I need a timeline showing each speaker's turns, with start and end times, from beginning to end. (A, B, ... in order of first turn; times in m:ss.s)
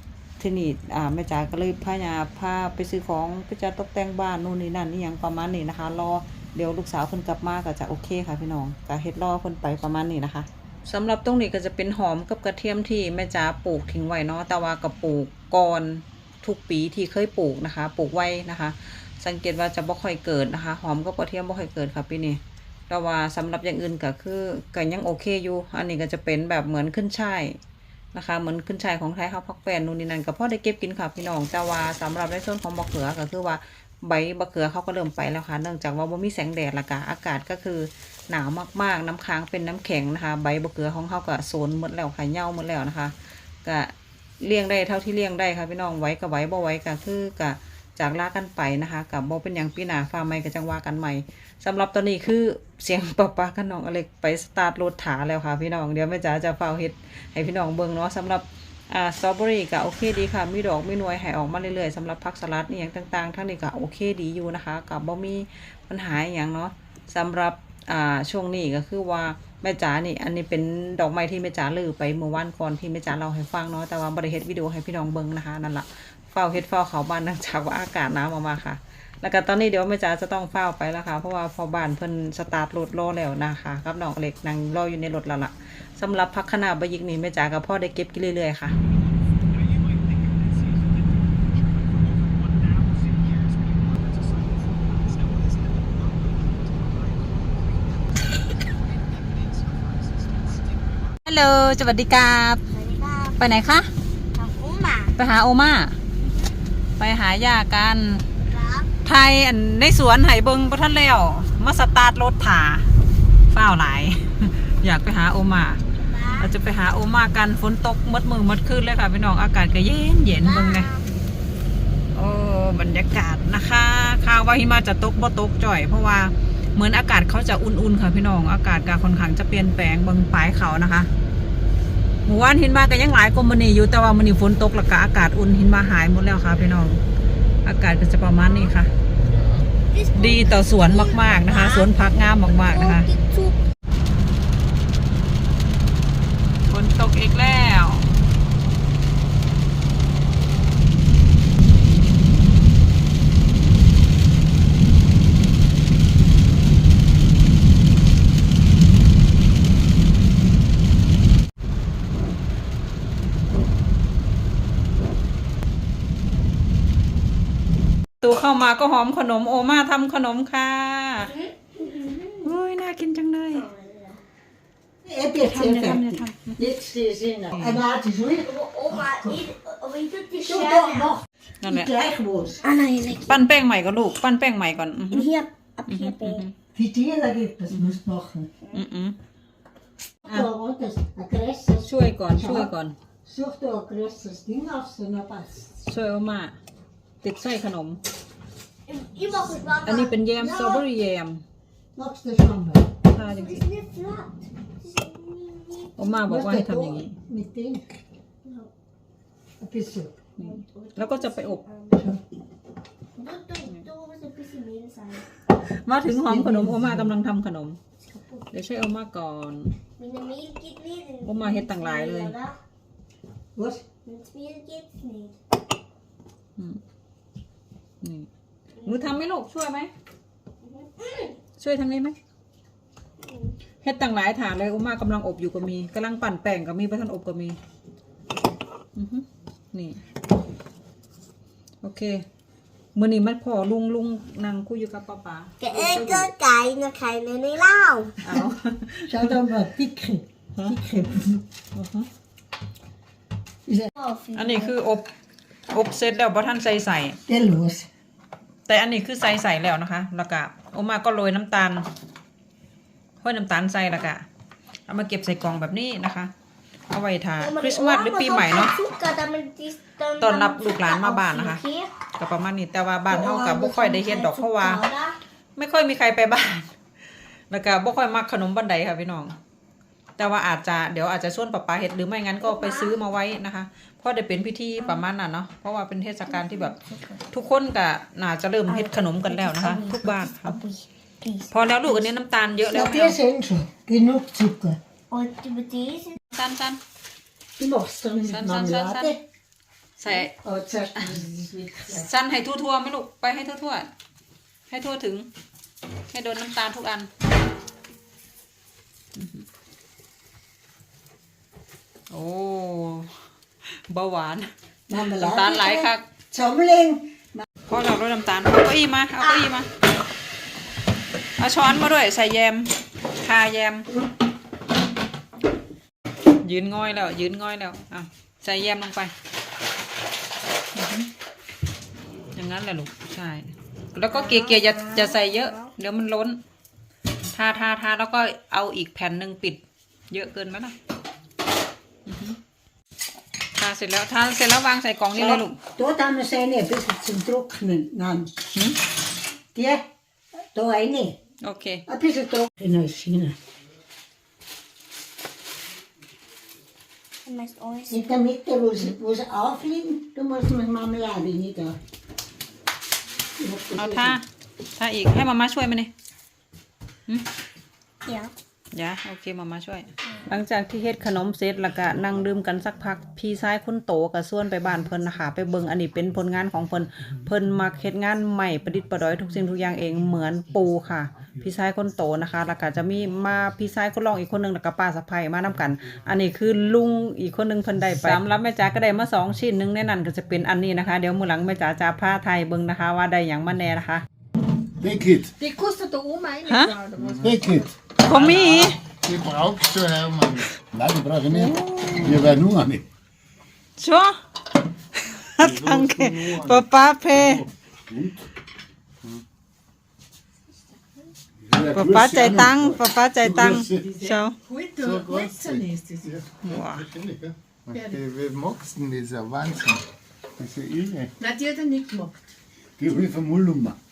0:00.4-0:27.6 A
0:28.1-1:28.8 A
1:41.2-1:42.6 A
1:42.7-1:43.4 B
1:43.4-1:43.9 A
1:44.4-1:45.2 B
1:45.2-1:46.0 A
1:47.0-1:48.3 A
1:48.5-1:48.9 B
1:49.0-1:52.9 A
1:53.5-1:55.8 A
1:56.0-1:56.5 B
1:56.4-2:00.9 A
2:00.4-2:01.1 B
2:02.1-2:11.1 A
2:12.2-2:17.0 A
2:17.6-2:18.9 A
2:19.2-2:19.7 C
2:19.9-2:21.9 B
2:20.2-2:23.1 A
2:22.5-2:23.6 B
2:26.7-2:28.1 A
2:48.2-2:51.3 A
2:51.2-2:52.5 B
2:52.4-2:53.7 A
2:53.5-2:54.2 B
2:55.0-2:59.4 D
2:55.4-2:56.6 A
2:57.5-2:57.8 A
2:58.4-3:01.1 B
3:00.4-3:02.6 D
3:01.6-3:01.9 A
3:02.6-3:03.4 B
3:03.3-3:05.3 A
3:05.1-3:06.4 B
3:05.9-3:06.5 A
3:06.8-3:08.5 D
3:07.7-3:08.0 A
3:08.7-3:09.2 A
3:10.2-3:12.7 D
3:11.8-3:13.0 A
3:13.3-3:15.7 D
3:15.8-3:16.6 A
3:17.2-3:18.0 A
3:18.9-3:20.9 B
3:19.8-3:21.4 A
3:20.4-3:20.7 D
3:22.0-3:22.8 D
3:23.1-3:23.6 A
3:23.2-3:26.1 B
3:26.0-3:27.2 A
3:26.2-3:27.9 D
3:28.4-3:28.7 B
3:29.6-3:30.2 D
3:30.4-3:31.6 A
3:30.4-3:32.0 B
3:33.2-3:35.3 B
3:35.6-3:37.8 A
3:36.1-3:37.1 D
3:38.1-3:38.5 B
3:38.5-3:39.7 A
3:40.0-3:42.6 B
3:41.2-3:42.3 A
3:43.6-3:43.8 D
3:44.0-3:45.4 B
3:48.0-3:48.3 A
3:48.8-3:49.1 B
3:48.8-3:49.9 A
3:50.6-3:51.3 B
3:51.6-3:52.2 A
3:53.2-3:53.6 B
3:53.8-3:57.6 A
3:59.0-4:00.0 A
4:01.8-4:02.2 A
4:03.0-4:06.3 A
4:05.6-4:08.2 B
4:08.2-4:09.4 A
4:09.1-4:11.4 D
4:11.7-4:12.1 A
4:14.0-4:14.7 B
4:14.4-4:15.1 A
4:15.7-4:17.2 A
4:17.3-4:17.9 D
4:18.7-4:21.9 A
4:23.2-4:24.2 A
4:24.9-4:26.3 A
4:26.9-4:28.8 A
4:27.4-4:31.9 B
4:30.2-4:31.6 A
4:32.2-4:34.8 A
4:33.1-4:35.2 B
4:35.6-4:36.7 A
4:37.5-4:39.4 A
4:40.2-4:46.8 A
4:42.4-4:43.0 B
4:46.5-4:47.2 B
4:47.3-4:50.6 A
4:48.7-4:52.1 B
4:51.5-4:53.2 A
4:52.6-4:54.8 D
4:55.1-4:56.2 B
4:56.3-4:56.8 A
4:57.6-4:59.2 D
4:58.3-4:59.2 A
5:00.0-5:00.3 A
5:00.4-5:02.1 D
5:01.9-5:03.9 A
5:04.7-5:05.3 A
5:06.1-5:07.1 A
5:09.2-5:09.4 A
5:12.1-5:13.1 A
5:13.7-5:14.5 A
5:14.9-5:17.5 D
5:15.2-5:16.0 A
5:17.7-5:19.7 A
5:21.4-5:23.9 A
5:26.4-5:29.1 A
5:30.8-5:31.1 A
5:32.4-5:36.4 A
5:34.4-5:35.2 B
5:37.3-5:40.8 A
5:42.1-5:42.4 A
5:43.6-5:45.6 A
5:45.2-5:48.3 D
5:48.5-5:48.8 A
5:49.6-5:49.8 D
5:50.5-5:51.2 D
5:51.4-5:51.8 A
5:51.9-5:53.4 D
5:57.3-5:58.1 B
5:57.9-6:01.8 D
6:03.4-6:04.2 D
6:03.8-6:05.9 A
6:08.1-6:08.3 B
6:08.7-6:34.0 A
6:34.8-6:35.3 E
6:35.4-6:37.7 F
6:36.5-6:36.8 A
6:37.0-6:37.4 C
6:37.2-6:37.7 E
6:38.0-6:38.8 A
6:38.1-6:40.6 C
6:40.6-6:41.4 E
6:41.3-6:42.3 A
6:42.0-6:42.8 E
6:43.8-6:44.2 A
6:45.0-6:47.4 A
6:45.4-6:46.6 C
6:47.1-6:48.3 E
6:51.4-6:53.9 E
6:51.7-6:54.4 A
6:53.7-6:56.2 F
6:54.8-6:59.8 C
6:56.4-6:56.9 A
6:57.7-6:58.0 F
7:00.4-7:01.1 C
7:01.2-7:02.2 F
7:02.8-7:03.8 E